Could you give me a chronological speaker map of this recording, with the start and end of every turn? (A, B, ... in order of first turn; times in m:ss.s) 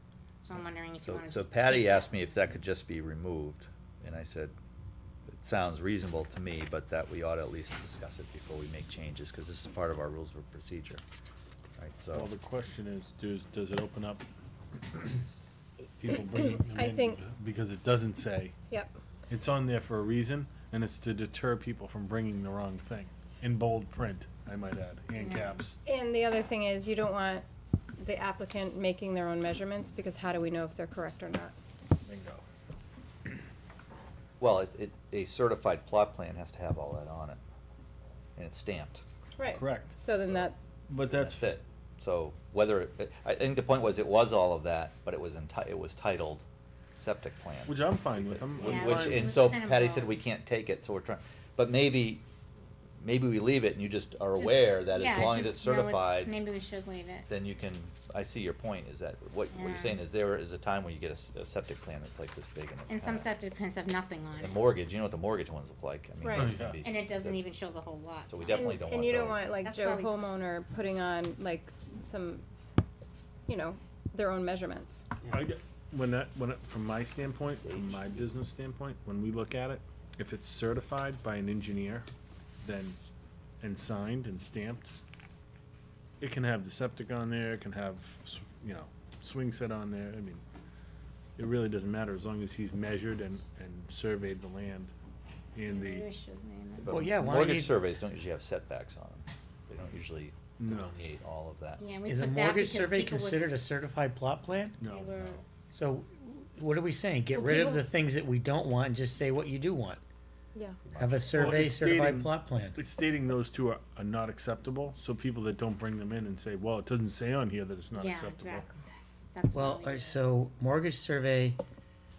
0:00.4-0:02.2 A
0:01.0-0:04.5 B
0:05.3-0:11.0 B
0:11.8-0:12.3 B
0:12.1-0:14.2 C
0:16.0-0:18.6 C
0:16.3-0:17.2 D
0:19.3-0:25.8 C
0:25.2-0:25.6 A
0:25.8-0:27.4 D
0:28.0-0:31.5 D
0:32.0-0:32.4 C
0:34.4-0:37.4 B
0:38.4-0:39.0 B
0:39.4-0:40.6 D
0:39.4-0:41.5 C
0:41.1-0:52.2 B
0:47.6-0:49.4 C
0:48.6-0:50.1 A
0:53.0-0:56.3 B
0:54.3-0:57.3 A
0:57.3-1:03.3 B
0:59.5-1:00.0 A
1:02.9-1:04.6 A
1:04.4-1:07.4 B
1:06.2-1:06.5 D
1:06.3-1:06.8 C
1:06.8-1:08.8 A
1:08.3-1:09.4 B
1:08.5-1:12.4 D
1:09.6-1:10.2 A
1:13.5-1:15.0 D
1:15.3-1:22.1 C
1:17.6-1:18.3 B
1:22.6-1:23.0 C
1:23.6-1:24.9 C
1:26.2-1:30.4 C
1:31.4-1:34.9 C
1:35.5-1:36.1 C
1:35.7-1:36.9 A
1:36.8-1:41.8 B
1:36.8-1:37.8 E
1:40.6-1:40.9 C
1:41.8-1:43.9 A
1:42.0-1:44.8 E
1:44.8-1:45.3 C
1:44.8-1:45.4 A
1:45.7-1:50.0 E
1:47.3-1:47.8 D
1:50.5-1:50.8 D
1:50.9-1:51.5 B
1:50.9-1:52.8 E
1:51.3-1:58.7 C
1:57.9-2:00.2 A
1:59.5-2:01.6 E